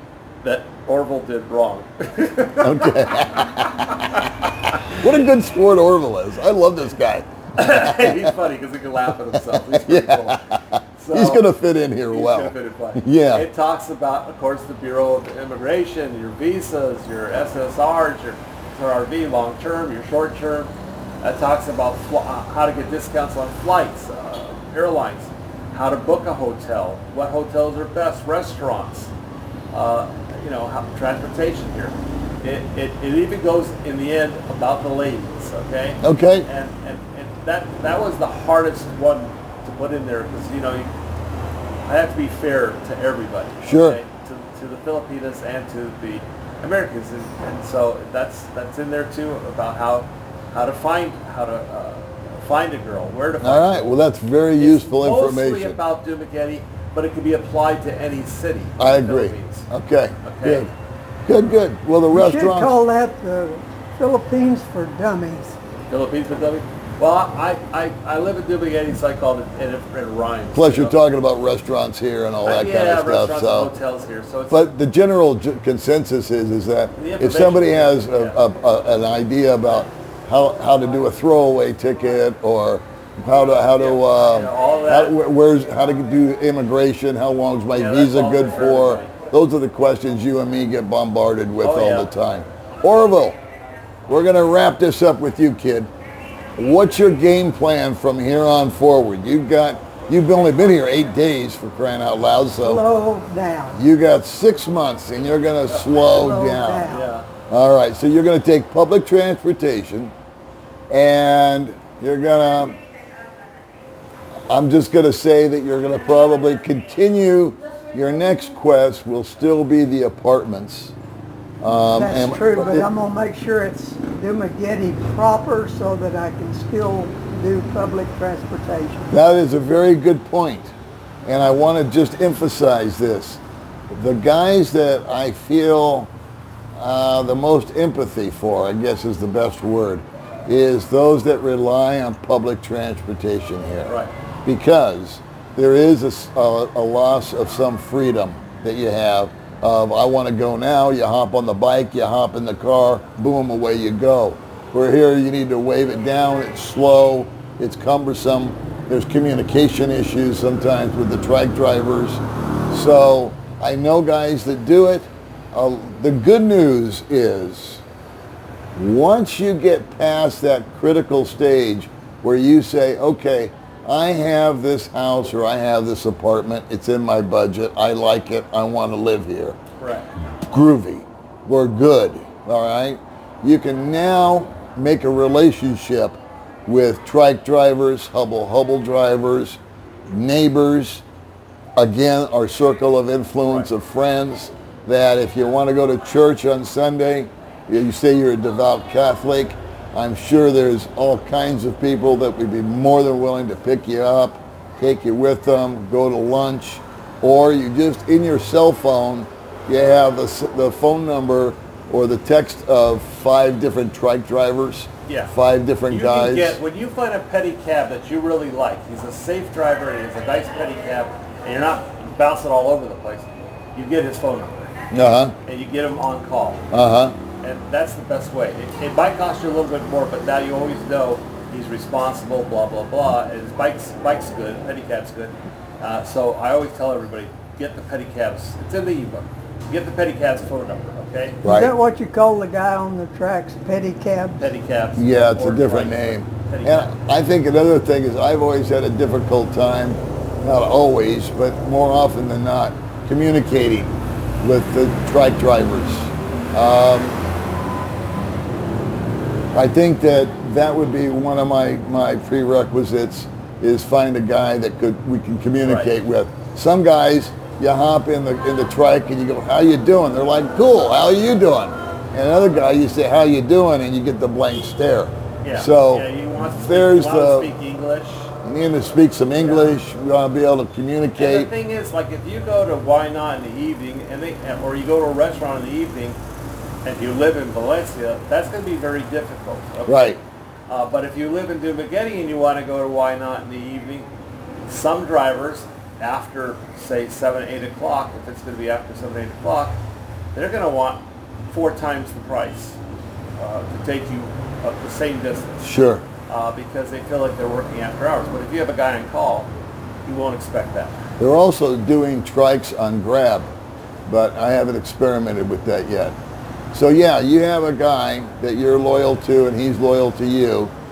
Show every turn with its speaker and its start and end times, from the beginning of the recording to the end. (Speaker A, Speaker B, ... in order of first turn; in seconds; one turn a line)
Speaker A: 0.4-5.0
Speaker B: 2.6-3.6
Speaker B: 5.0-8.3
Speaker A: 7.6-10.4
Speaker B: 9.3-13.5
Speaker A: 11.0-11.4
Speaker A: 12.1-29.1
Speaker A: 29.7-40.9
Speaker B: 36.0-36.5
Speaker A: 41.9-54.0
Speaker B: 43.6-44.0
Speaker B: 53.4-55.8
Speaker A: 54.6-59.7
Speaker B: 58.8-60.7
Speaker A: 60.2-60.7
Speaker B: 61.2-62.8
Speaker C: 62.1-65.6
Speaker A: 65.9-70.9
Speaker B: 70.5-73.7
Speaker A: 72.5-74.7
Speaker B: 74.5-93.4
Speaker A: 77.0-78.4
Speaker A: 83.7-85.2
Speaker A: 87.8-89.1
Speaker A: 91.6-92.1
Speaker B: 94.1-95.9
Speaker B: 96.6-102.8
Speaker C: 102.6-103.8
Speaker B: 103.8-106.9
Speaker C: 106.1-107.1
Speaker A: 106.9-107.3
Speaker B: 107.5-110.1
Speaker B: 110.9-112.8
Speaker B: 114.5-120.9
Speaker B: 121.6-122.9
Speaker C: 122.0-129.1
Speaker B: 129.1-130.7
Speaker B: 131.2-136.1
Speaker B: 136.8-167.8
Speaker B: 168.8-179.6
Speaker A: 179.8-180.1
Speaker B: 180.4-191.0
Speaker B: 191.8-216.6
Speaker A: 215.1-215.3
Speaker A: 215.9-224.7
Speaker B: 224.9-225.3
Speaker A: 225.5-226.7
Speaker B: 226.7-227.2
Speaker A: 227.4-241.4
Speaker B: 241.4-241.7
Speaker C: 241.4-244.4
Speaker A: 244.4-246.9
Speaker B: 245.0-257.2
Speaker B: 259.5-277.5
Speaker A: 265.6-265.9
Speaker A: 275.4-278.3
Speaker B: 278.4-281.5
Speaker A: 279.4-279.7
Speaker A: 281.2-286.2
Speaker A: 286.8-290.1
Speaker B: 289.9-290.2
Speaker A: 290.7-294.1
Speaker A: 294.7-299.8
Speaker A: 300.3-302.8
Speaker A: 303.4-305.6
Speaker B: 305.6-306.1
Speaker A: 306.3-309.5
Speaker A: 310.1-311.0
Speaker B: 311.2-313.5
Speaker B: 314.1-316.2
Speaker B: 316.7-320.7